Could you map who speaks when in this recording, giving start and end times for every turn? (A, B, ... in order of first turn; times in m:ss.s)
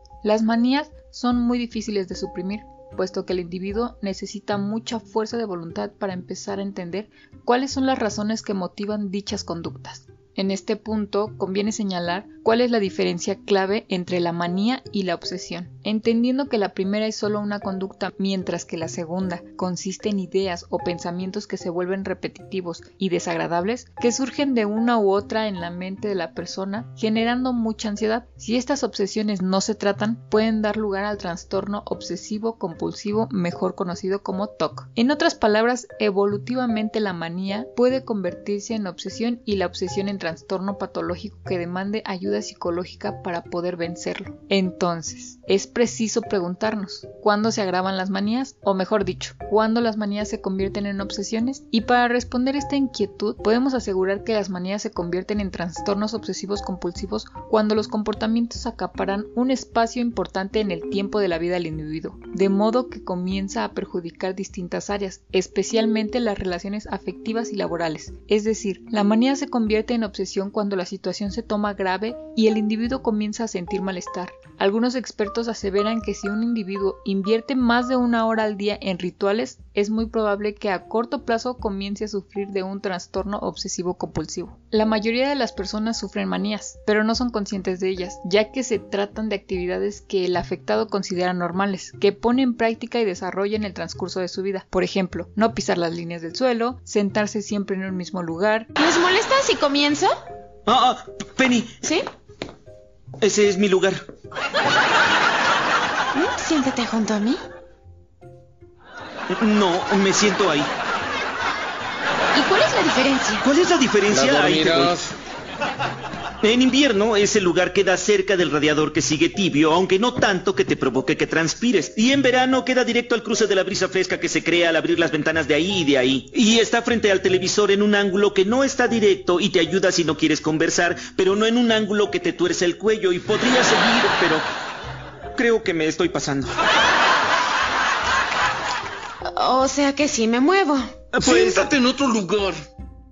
0:00.2-1:38.7 A
1:38.8-1:40.1 B
1:40.7-1:41.8 C
1:43.2-1:44.0 C
1:46.1-1:47.4 B
1:49.3-1:50.7 C
1:52.3-1:53.4 B
1:53.4-1:55.0 C
1:54.1-1:55.0 D
1:56.4-2:14.4 C
2:15.4-2:16.5 C
2:19.2-2:21.7 B
2:21.2-2:22.6 D
2:21.3-2:21.6 C